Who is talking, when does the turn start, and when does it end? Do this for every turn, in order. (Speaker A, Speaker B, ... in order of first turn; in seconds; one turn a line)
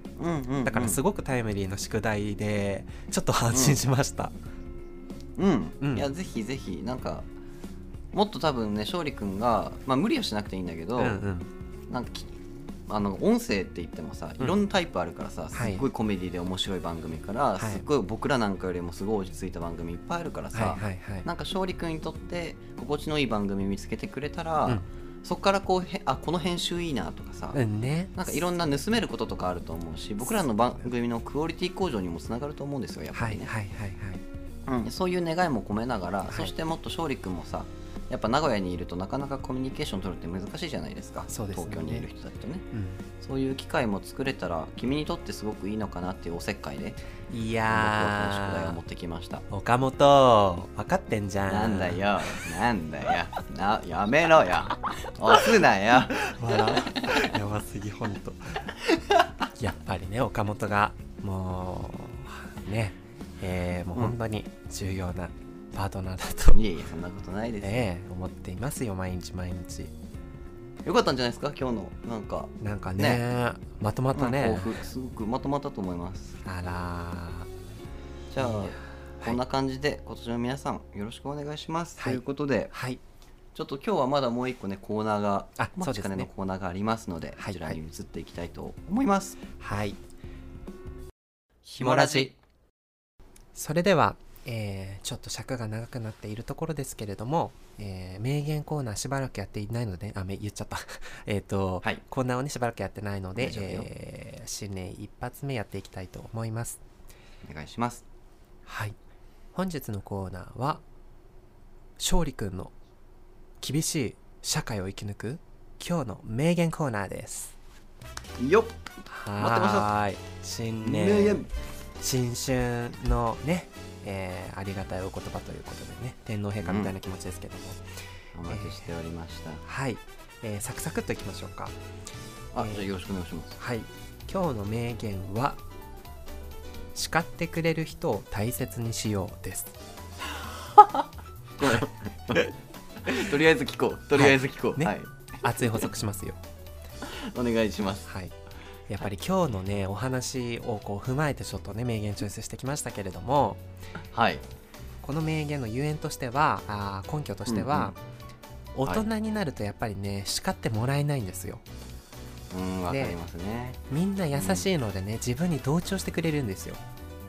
Speaker A: 0.2-1.0
Speaker B: 0.6-4.3
Speaker A: 3.5-3.8
Speaker A: 5.4-7.2
Speaker B: 5.8-6.1
Speaker A: 8.1-11.2
Speaker B: 11.0-11.5
Speaker A: 11.9-12.4
Speaker A: 12.9-27.6
Speaker B: 15.5-15.8
Speaker B: 17.6-17.8
Speaker B: 20.5-21.3
Speaker B: 27.5-28.4
Speaker A: 28.2-33.5
Speaker B: 33.1-34.2
Speaker A: 34.7-42.6
Speaker B: 41.3-42.1
Speaker B: 42.7-43.0
Speaker A: 43.2-47.0
Speaker B: 47.3-48.8
Speaker A: 47.7-49.4
Speaker B: 49.5-52.4
Speaker A: 51.5-56.8
Speaker B: 56.1-58.7
Speaker B: 59.4-66.6
Speaker A: 66.5-67.8
Speaker B: 67.6-69.9
Speaker A: 70.8-73.2
Speaker B: 72.6-74.8
Speaker A: 74.1-76.4
Speaker B: 76.4-77.5
Speaker A: 78.3-82.7
Speaker B: 78.4-79.4
Speaker B: 82.0-83.0
Speaker A: 83.5-89.4
Speaker B: 85.6-86.3
Speaker B: 87.4-87.8
Speaker B: 89.6-90.0
Speaker B: 91.7-92.3
Speaker A: 91.8-92.3
Speaker B: 93.5-106.8
Speaker A: 103.4-103.9
Speaker A: 107.4-108.0
Speaker B: 108.7-109.0
Speaker B: 109.5-110.8
Speaker B: 112.0-112.7
Speaker B: 113.6-117.5
Speaker A: 118.4-118.8
Speaker B: 119.1-121.5
Speaker A: 119.4-119.9
Speaker A: 120.8-121.5
Speaker B: 122.0-127.8
Speaker A: 126.6-126.9
Speaker A: 128.3-129.6
Speaker B: 128.5-128.8
Speaker B: 129.6-131.8
Speaker A: 132.5-133.6
Speaker B: 133.6-135.6
Speaker B: 136.9-139.7
Speaker A: 140.8-141.0
Speaker A: 141.6-142.5
Speaker A: 143.0-145.1
Speaker B: 144.1-146.4
Speaker A: 147.1-148.1
Speaker B: 148.1-148.3
Speaker B: 148.9-153.6
Speaker A: 154.1-154.4
Speaker B: 155.0-158.0
Speaker A: 157.5-157.9
Speaker B: 158.7-161.6
Speaker A: 162.5-163.8
Speaker B: 162.9-163.2
Speaker B: 163.9-166.8
Speaker A: 164.3-164.7